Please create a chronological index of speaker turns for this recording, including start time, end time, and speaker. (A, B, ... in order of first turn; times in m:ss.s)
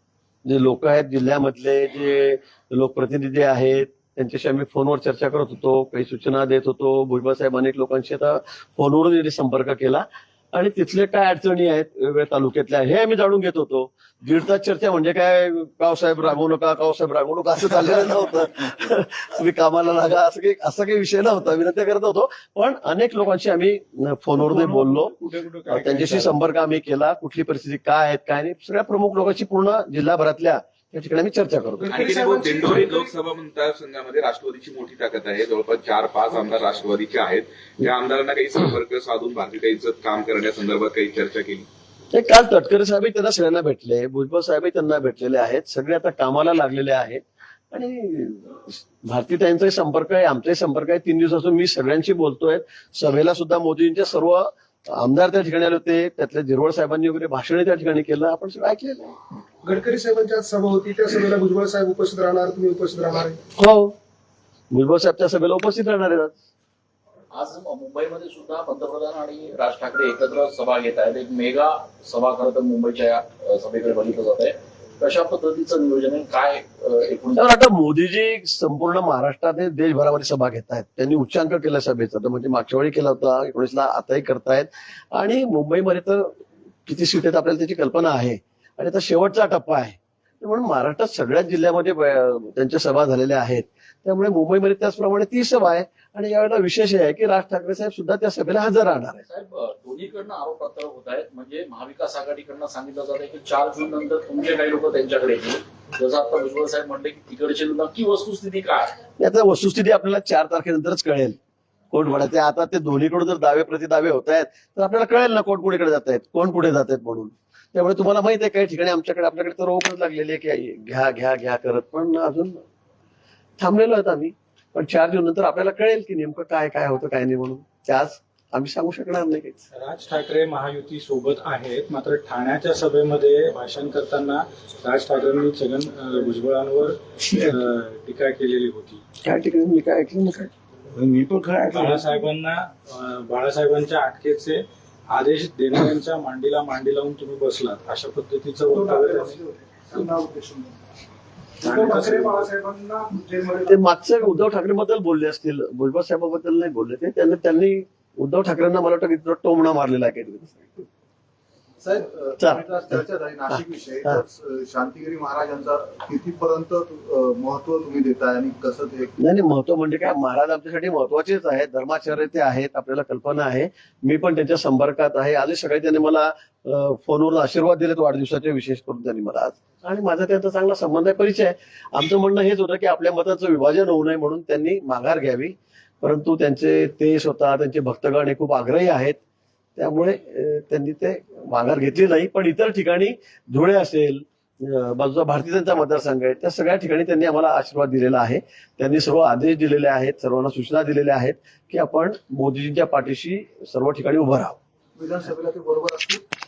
0:00.4-0:25.1 A
0:24.4-0:26.4 B
0:25.7-0:32.0 A
0:31.8-0:33.1 C
0:31.9-0:41.7 D
0:42.1-0:59.1 A
0:59.6-1:03.4 C
1:03.6-1:03.9 A
1:04.7-1:06.3 A
1:07.3-1:17.4 E
1:17.4-1:26.3 A
1:26.8-1:39.2 A
1:39.2-1:49.0 E
1:49.2-1:51.4 A
1:51.9-2:02.6 A
2:03.6-2:09.6 A
2:09.7-2:19.0 F
2:19.2-2:20.5 A
2:20.9-2:22.1 B
2:21.7-2:29.4 F
2:28.7-2:30.7 G
2:31.6-2:32.5 F
2:31.8-2:33.5 G
2:33.6-2:40.7 A
2:41.8-2:49.1 G
2:42.4-2:44.2 A
2:49.2-3:09.2 A
3:09.8-3:24.6 A
3:25.0-3:26.2 G